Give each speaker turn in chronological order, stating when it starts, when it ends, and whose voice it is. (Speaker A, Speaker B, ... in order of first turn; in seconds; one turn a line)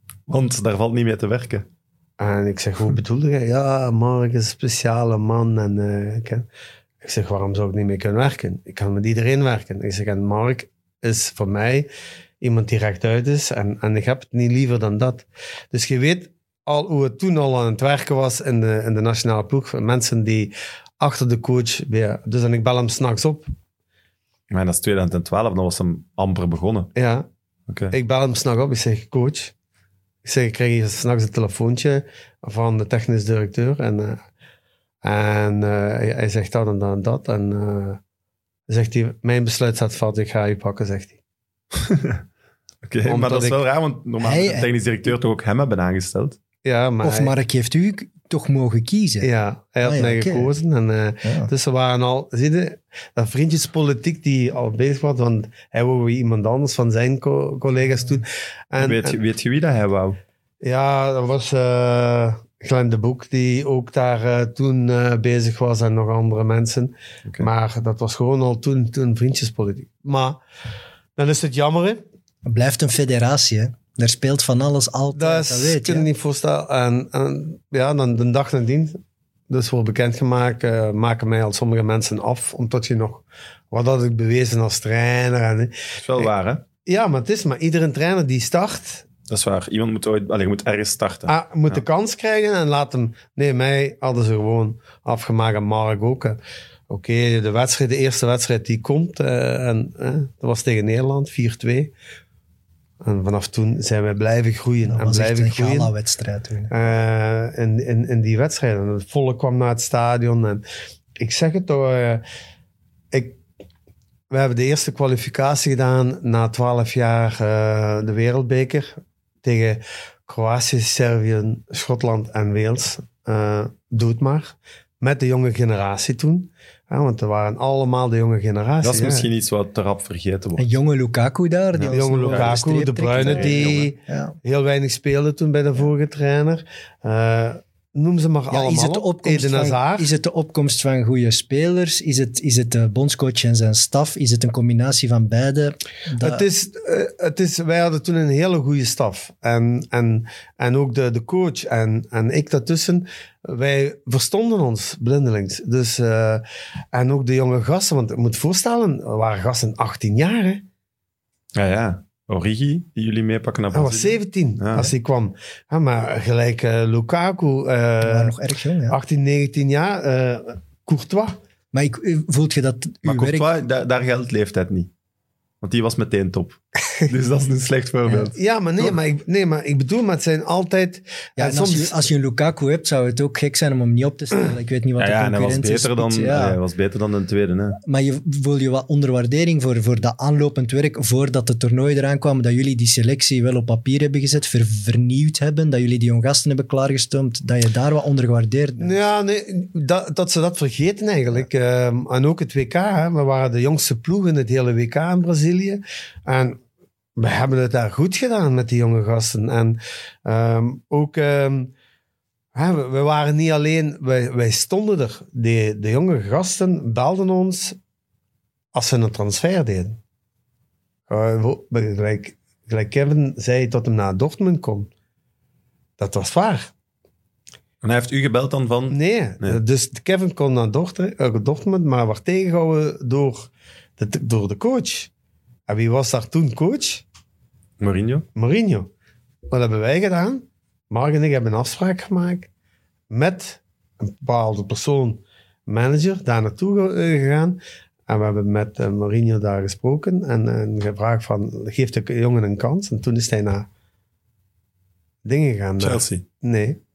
Speaker A: 0.3-1.6
Speaker B: 2.2-6.5
Speaker B: 7.0-11.9
Speaker B: 12.4-23.5
Speaker A: 24.5-26.9
Speaker B: 26.9-27.3
Speaker A: 27.7-27.9
Speaker B: 27.9-29.5
Speaker B: 30.2-34.2
Speaker B: 35.0-38.0
Speaker B: 38.7-41.2
Speaker A: 41.7-42.2
Speaker A: 42.8-46.4
Speaker B: 43.1-43.6
Speaker C: 44.2-44.7
Speaker B: 46.6-47.3
Speaker C: 47.0-49.3
Speaker B: 49.2-59.2
Speaker C: 49.8-50.5
Speaker C: 51.2-51.5
Speaker A: 58.8-60.2
Speaker B: 60.6-70.4
Speaker B: 71.2-72.0
Speaker C: 72.4-76.1
Speaker B: 75.1-79.0
Speaker B: 79.5-86.3
Speaker A: 86.0-86.6
Speaker B: 86.8-89.0
Speaker A: 89.3-91.8
Speaker B: 91.3-96.4
Speaker B: 96.9-101.9
Speaker B: 103.0-105.9
Speaker C: 104.9-106.7
Speaker B: 106.7-110.6
Speaker B: 111.2-112.2
Speaker B: 113.1-113.4
Speaker B: 114.3-129.3
Speaker A: 128.8-130.6
Speaker C: 130.6-134.4
Speaker A: 131.7-132.6
Speaker B: 131.9-140.1
Speaker A: 133.2-133.9
Speaker C: 138.5-146.4
Speaker B: 146.2-160.6
Speaker A: 161.5-164.9
Speaker B: 163.7-168.3
Speaker C: 168.0-169.0
Speaker B: 168.9-171.4
Speaker C: 171.7-173.5
Speaker A: 173.0-174.9
Speaker A: 175.6-178.9
Speaker B: 178.3-182.1
Speaker C: 181.4-186.6
Speaker A: 185.0-187.8
Speaker C: 187.8-198.9
Speaker B: 198.8-206.6
Speaker B: 207.2-211.7
Speaker B: 212.5-217.8
Speaker B: 218.7-220.0
Speaker B: 221.1-224.9
Speaker B: 226.0-226.7
Speaker A: 227.8-229.6
Speaker B: 228.9-235.1
Speaker B: 235.7-237.0
Speaker A: 237.8-238.2
Speaker B: 238.3-238.9
Speaker B: 239.5-242.5
Speaker B: 243.1-253.7
Speaker B: 255.2-256.8
Speaker A: 255.8-256.2